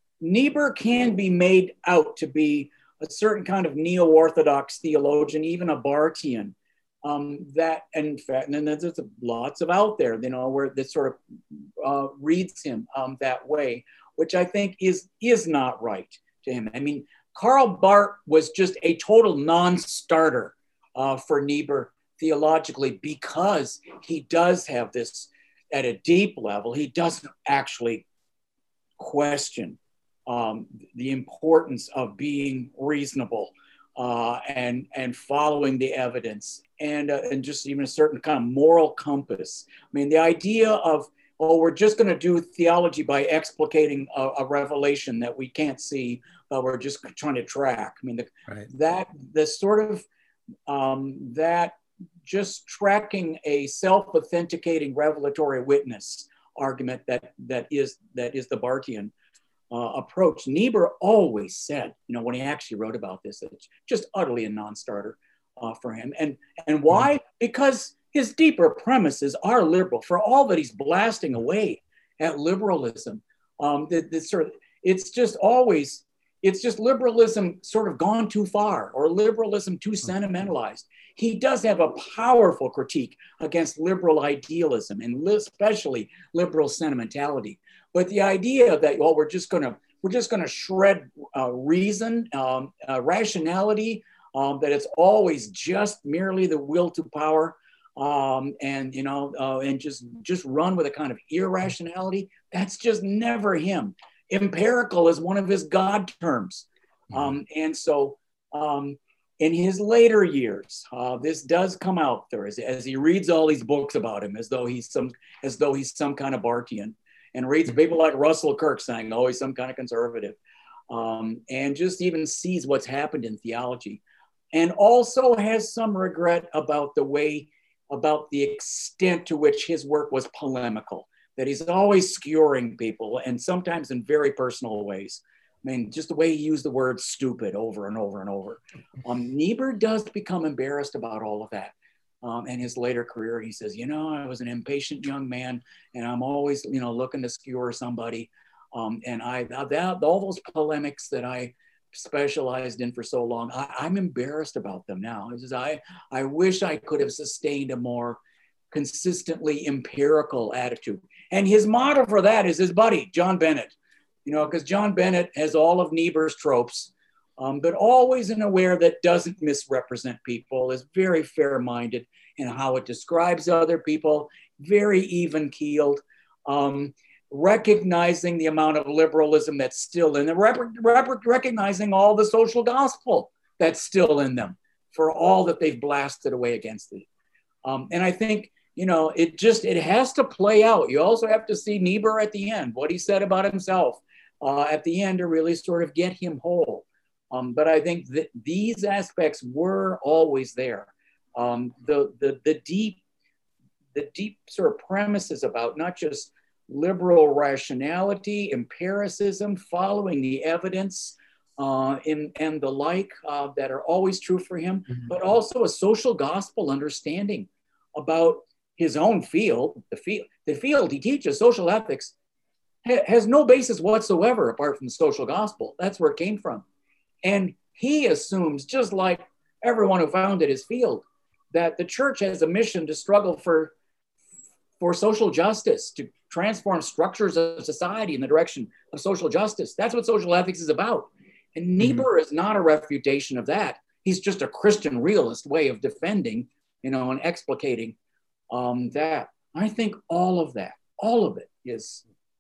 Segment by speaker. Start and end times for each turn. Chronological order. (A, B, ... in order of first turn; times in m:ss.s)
0:00.2-0:28.0 A
0:29.0-0:50.0 A
0:50.7-0:51.7 A
0:52.2-0:59.1 A
0:59.7-2:00.4 A
2:00.9-2:04.0 A
2:04.5-2:38.2 A
2:38.7-2:43.7 A
2:44.2-3:07.1 A
3:07.6-3:23.0 A
3:24.0-3:42.1 A
3:42.8-3:46.6 A
3:47.2-3:53.7 A
3:54.8-4:08.0 A
4:08.5-4:12.0 A